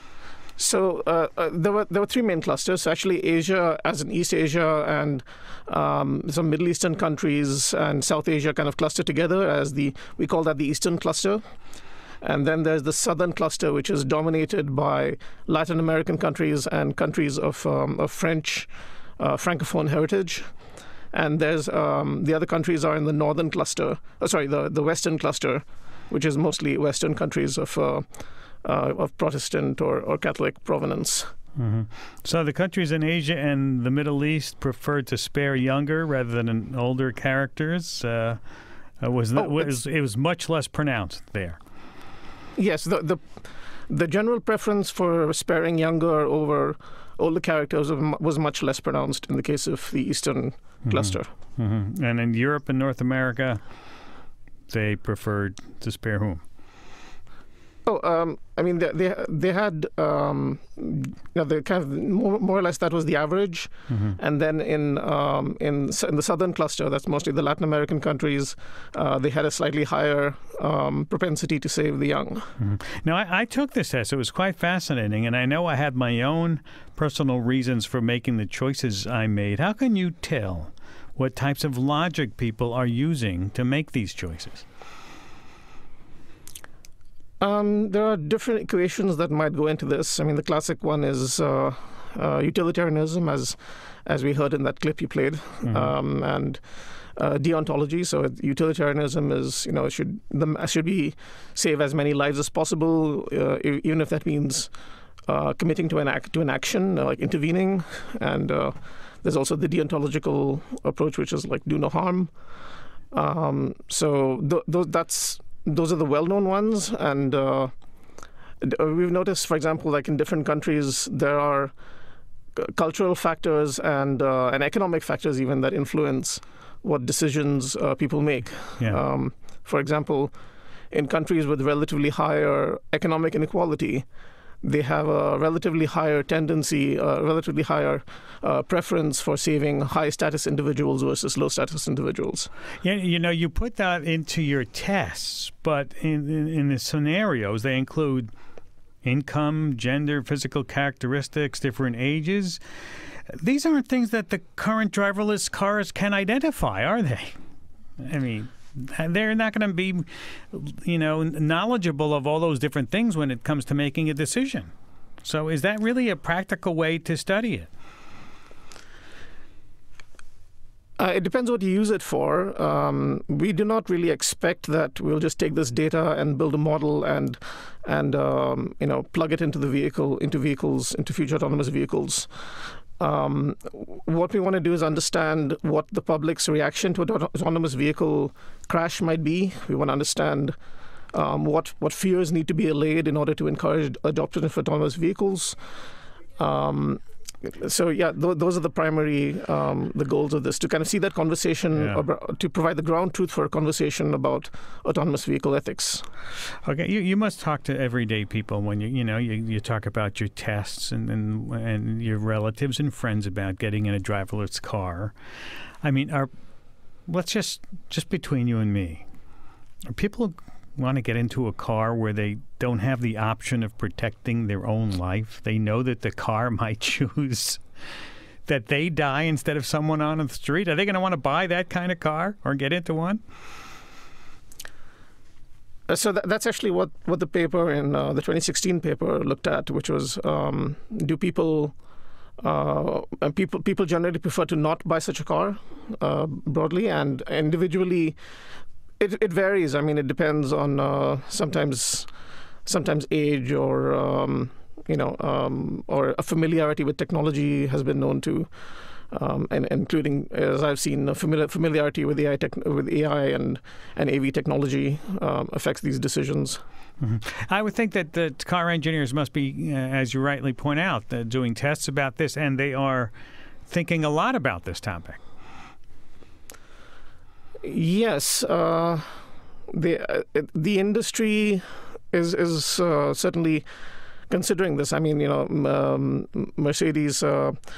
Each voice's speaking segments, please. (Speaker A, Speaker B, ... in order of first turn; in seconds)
Speaker A: 0.6-11.4, 12.2-20.5, 21.1-28.1, 28.6-31.3, 39.4-39.7, 42.5-51.3, 57.8-72.5, 87.4-96.6, 97.1-104.7, 105.2-112.3, 113.1-117.7, 118.6-121.7, 122.5-130.3, 130.9-134.1, 134.6-142.5, 171.0-182.3, 183.0-190.6, 191.1-195.6, 196.4-206.1, 235.9-241.7, 242.4-248.2, 249.0-252.1, 252.7-258.5, 259.1-266.6, 277.6-283.7, 284.3-287.6
Speaker B: 31.6-38.4, 39.0-41.6, 50.9-53.6, 54.7-56.4, 63.9-64.2, 72.6-84.6, 95.6-95.9, 142.8-148.3, 149.0-152.6, 153.3-157.3, 158.0-164.7, 165.2-167.7, 201.8-202.0, 206.6-215.1, 215.8-216.3, 217.1-219.0, 219.9-227.6, 228.5-233.2, 267.0-273.1, 273.7-275.2